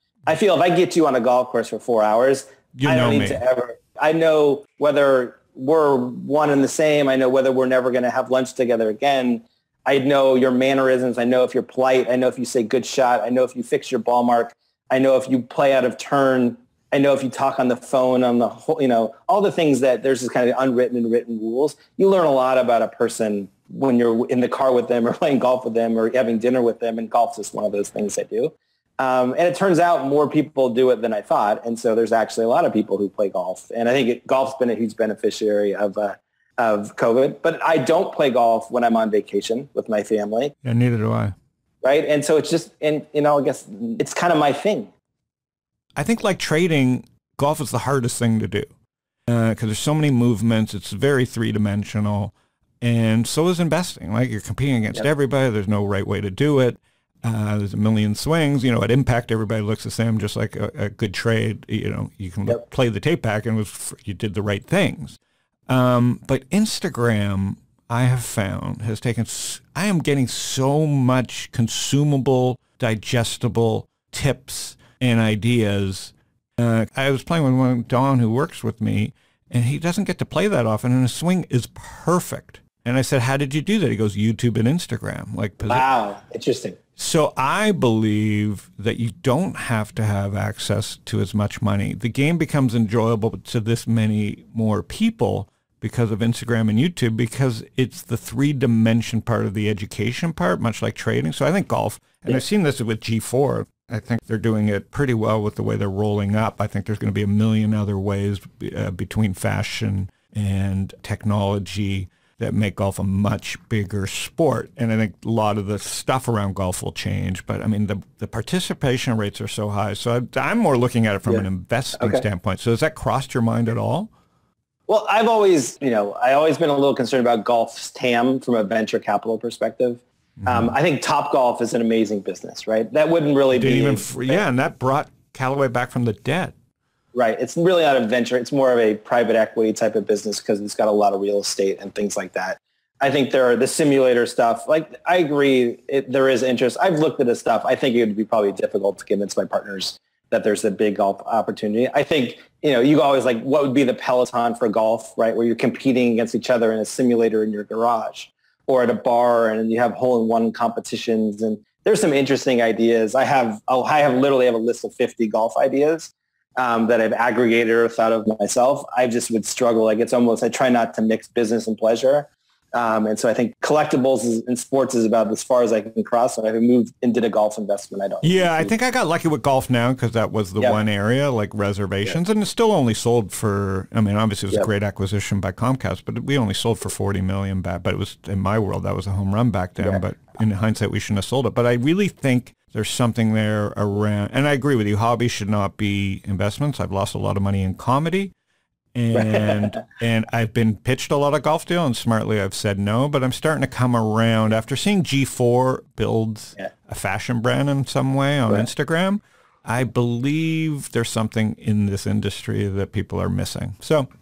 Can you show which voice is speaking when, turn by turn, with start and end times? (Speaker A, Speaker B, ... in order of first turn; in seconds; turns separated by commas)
Speaker A: 0.3-40.5, Speaker B: 2.7-3.4, Speaker B: 40.6-41.3, Speaker A: 41.8-44.9, Speaker B: 46.0-48.7, Speaker B: 49.3-65.2, Speaker B: 65.7-85.9, Speaker A: 85.7-86.8, Speaker B: 87.0-124.1, Speaker A: 121.3-122.2, Speaker A: 124.9-134.4, Speaker B: 130.4-130.7, Speaker B: 133.5-136.5, Speaker A: 137.1-178.7, Speaker B: 178.2-198.3, Speaker B: 198.9-214.1, Speaker A: 199.1-199.8